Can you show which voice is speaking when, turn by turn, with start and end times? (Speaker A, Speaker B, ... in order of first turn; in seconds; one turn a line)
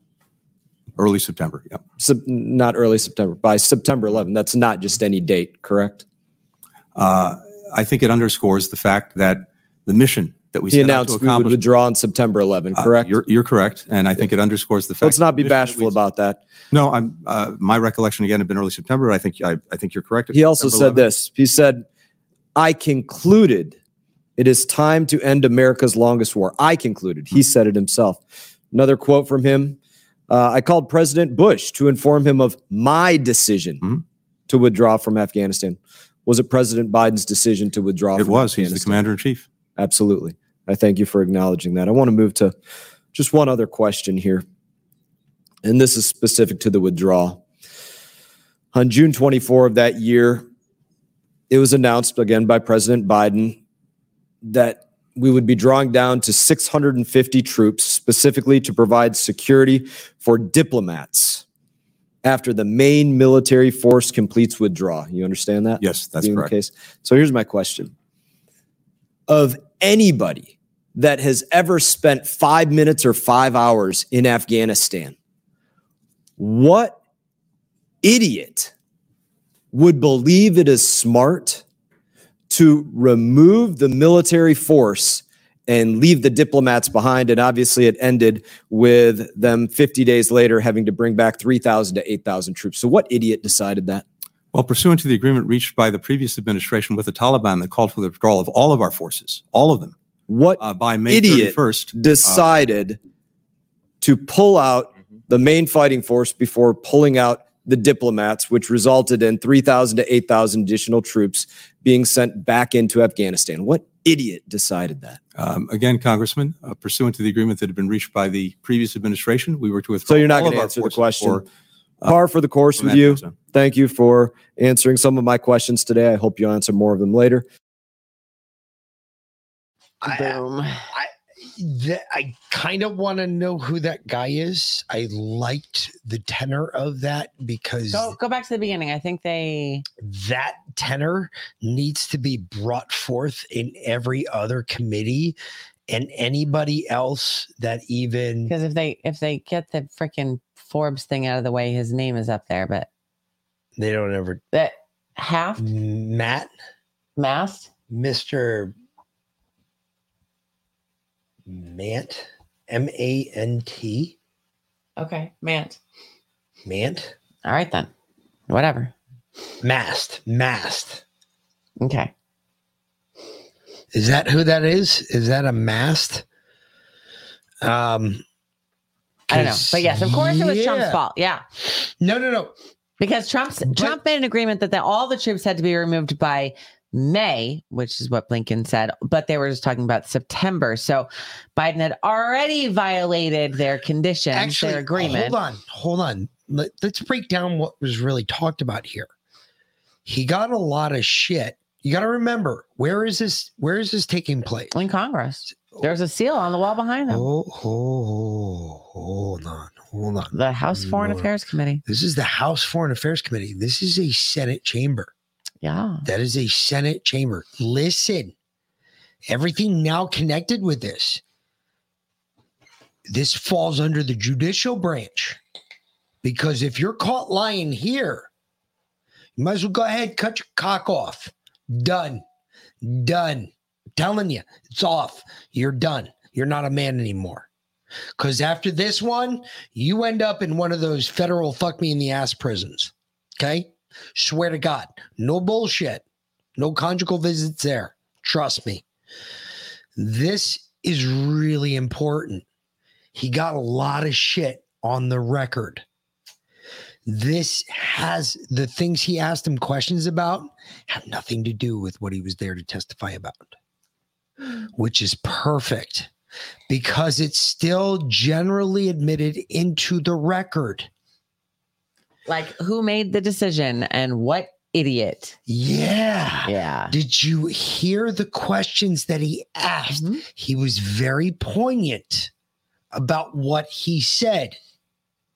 Speaker A: 1.0-1.9
Speaker B: 2.0-6.0
Speaker A: 7.0-11.6
Speaker B: 10.7-13.2
Speaker A: 12.7-16.1
Speaker B: 15.0-16.4
Speaker A: 16.7-21.1
Speaker B: 20.3-21.8
Speaker B: 22.6-23.8
Speaker B: 24.4-28.2
Speaker B: 28.7-29.8
Speaker B: 30.3-33.8
Speaker B: 34.5-39.0
Speaker A: 38.1-39.5
Speaker B: 39.8-42.5
Speaker B: 43.1-44.5
Speaker B: 45.6-47.4
Speaker B: 48.7-50.5
Speaker B: 51.5-53.6
Speaker B: 54.4-61.4
Speaker B: 62.2-67.9
Speaker A: 65.8-66.6
Speaker B: 69.3-75.2
Speaker B: 76.4-77.0
Speaker B: 78.0-78.7
Speaker B: 79.7-81.6
Speaker B: 82.5-94.0
Speaker A: 94.5-100.0
Speaker B: 100.3-103.0
Speaker A: 100.6-102.6
Speaker B: 104.0-115.2
Speaker A: 115.3-121.5
Speaker B: 120.1-121.4
Speaker B: 122.0-127.5
Speaker A: 122.7-123.4
Speaker C: 130.0-138.1
Speaker D: 130.1-130.8
Speaker D: 137.9-139.8
Speaker C: 140.0-145.4
Speaker C: 145.9-148.5
Speaker D: 148.5-152.9
Speaker C: 153.8-154.4
Speaker D: 154.5-155.6
Speaker C: 155.6-156.5
Speaker D: 157.2-157.7
Speaker C: 157.9-158.7
Speaker C: 161.4-164.2
Speaker D: 165.0-165.8
Speaker C: 166.6-167.1
Speaker D: 167.4-167.9
Speaker D: 168.5-168.9
Speaker C: 169.6-171.0
Speaker D: 171.8-172.1
Speaker C: 173.9-176.2
Speaker C: 177.6-178.2
Speaker C: 179.3-181.0
Speaker D: 179.3-181.4
Speaker C: 181.6-182.5
Speaker D: 183.0-195.4
Speaker C: 183.7-184.0
Speaker C: 194.3-199.1
Speaker C: 200.1-204.8
Speaker D: 204.7-207.2
Speaker C: 205.5-205.9
Speaker C: 207.1-211.3
Speaker D: 210.3-211.8
Speaker C: 211.8-215.1
Speaker D: 215.6-216.1
Speaker C: 216.0-218.3
Speaker C: 219.3-221.2
Speaker C: 223.1-225.4
Speaker C: 226.2-228.3
Speaker C: 229.4-232.2
Speaker C: 232.8-237.5
Speaker C: 238.2-246.0
Speaker C: 246.6-248.8
Speaker C: 250.0-252.4
Speaker C: 253.1-255.8
Speaker C: 257.1-263.5
Speaker C: 264.8-266.1
Speaker C: 266.7-270.9
Speaker D: 272.3-275.4
Speaker C: 275.5-282.3
Speaker D: 276.4-276.9
Speaker D: 279.9-280.2
Speaker C: 282.9-284.6